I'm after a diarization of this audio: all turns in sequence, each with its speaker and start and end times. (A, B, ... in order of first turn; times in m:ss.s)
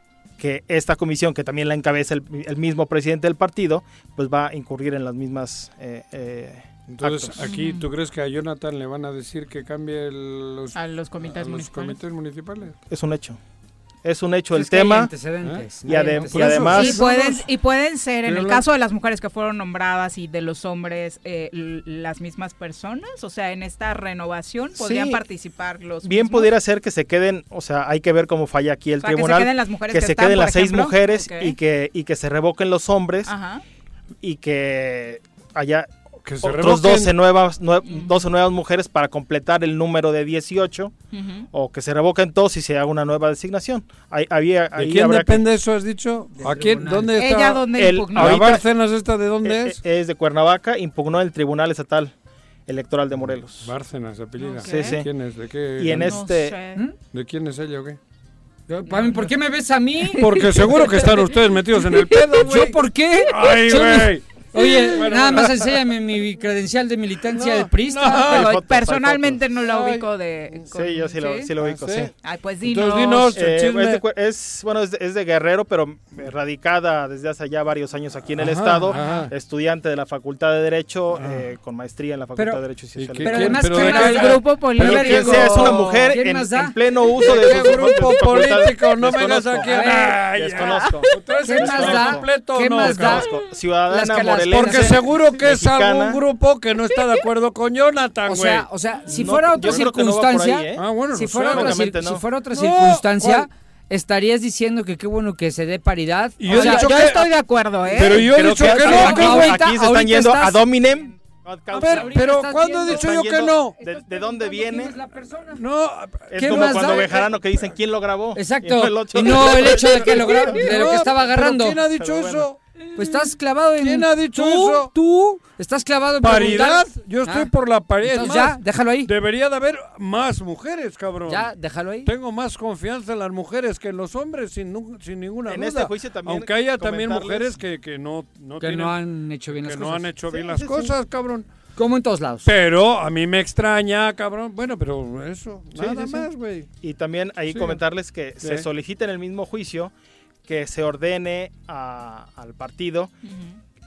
0:00.4-0:07.4 A
0:06.9-0:12.7 B
0:07.4-0:07.8 C
0:10.7-0:12.0 C
0:12.9-0:13.4 A
0:14.0-0:15.1 A
0:14.6-0:17.0 D
0:15.4-0:17.5 B
0:15.8-0:17.0 A
0:16.7-0:26.5 C
0:18.2-0:18.6 B
0:24.8-0:25.2 A
0:26.0-0:33.3 A
0:29.0-0:31.6 C
0:33.3-0:33.6 C
0:34.2-0:35.9 A
0:36.2-0:37.2 B
0:36.4-0:40.9 A
0:37.8-0:38.2 C
0:41.1-0:41.5 C
0:41.5-0:45.4 A
0:44.8-0:49.8 B
0:46.4-0:47.1 D
0:47.2-0:48.4 C
0:47.7-0:48.6 A
0:49.4-0:52.1 A
0:52.7-0:53.7 A
0:53.5-0:56.2 B
0:54.4-0:55.0 C
0:54.6-0:55.1 A
0:55.8-0:56.6 A
0:55.9-0:56.8 C
0:57.1-0:58.0 B
0:58.7-1:00.2 D
0:58.9-0:59.3 C
1:00.0-1:01.1 C
1:00.2-1:05.8 B
1:01.9-1:02.2 C
1:02.4-1:08.3 D
1:07.3-1:08.6 B
1:08.1-1:11.5 C
1:08.2-1:09.4 A
1:09.6-1:10.7 B
1:10.7-1:12.1 A
1:11.6-1:12.1 B
1:12.2-1:13.4 C
1:12.6-1:14.0 B
1:13.3-1:23.7 A
1:18.4-1:19.3 B
1:18.9-1:19.3 C
1:21.1-1:21.5 B
1:23.0-1:25.4 B
1:23.2-1:26.7 D
1:23.7-1:26.1 C
1:24.8-1:32.3 A
1:27.2-1:33.3 B
1:29.6-1:30.2 D
1:30.6-1:31.0 C
1:31.4-1:33.3 D
1:32.8-1:36.2 A
1:33.9-1:35.0 D
1:34.5-1:39.8 B
1:38.3-1:46.9 D
1:39.1-1:40.8 A
1:40.8-1:43.5 B
1:41.5-1:42.2 A
1:46.4-1:47.3 B
1:46.5-1:48.3 C
1:47.8-1:49.6 B
1:48.0-1:52.2 A
1:48.4-1:50.6 D
1:48.8-1:49.6 C
1:51.7-1:53.7 B
1:51.8-1:53.1 D
1:52.9-1:55.0 A
1:53.8-1:55.6 D
1:55.6-1:57.1 B
1:56.3-2:00.7 A
1:56.4-1:57.4 D
1:58.3-2:01.8 D
1:59.3-2:02.6 B
2:01.8-2:02.5 A
2:03.0-2:07.5 D
2:03.8-2:04.9 B
2:06.2-2:11.5 B
2:08.0-2:09.1 D
2:11.3-2:12.1 D
2:12.0-2:18.9 B
2:15.5-2:17.5 A
2:18.6-2:20.1 D
2:19.5-2:21.5 B
2:20.3-2:20.9 A
2:21.8-2:22.5 D
2:22.4-2:26.7 B
2:25.8-2:26.2 A
2:26.8-2:29.9 A
2:27.5-2:27.8 B
2:28.4-2:28.6 B
2:30.4-2:33.1 A
2:33.2-2:33.6 C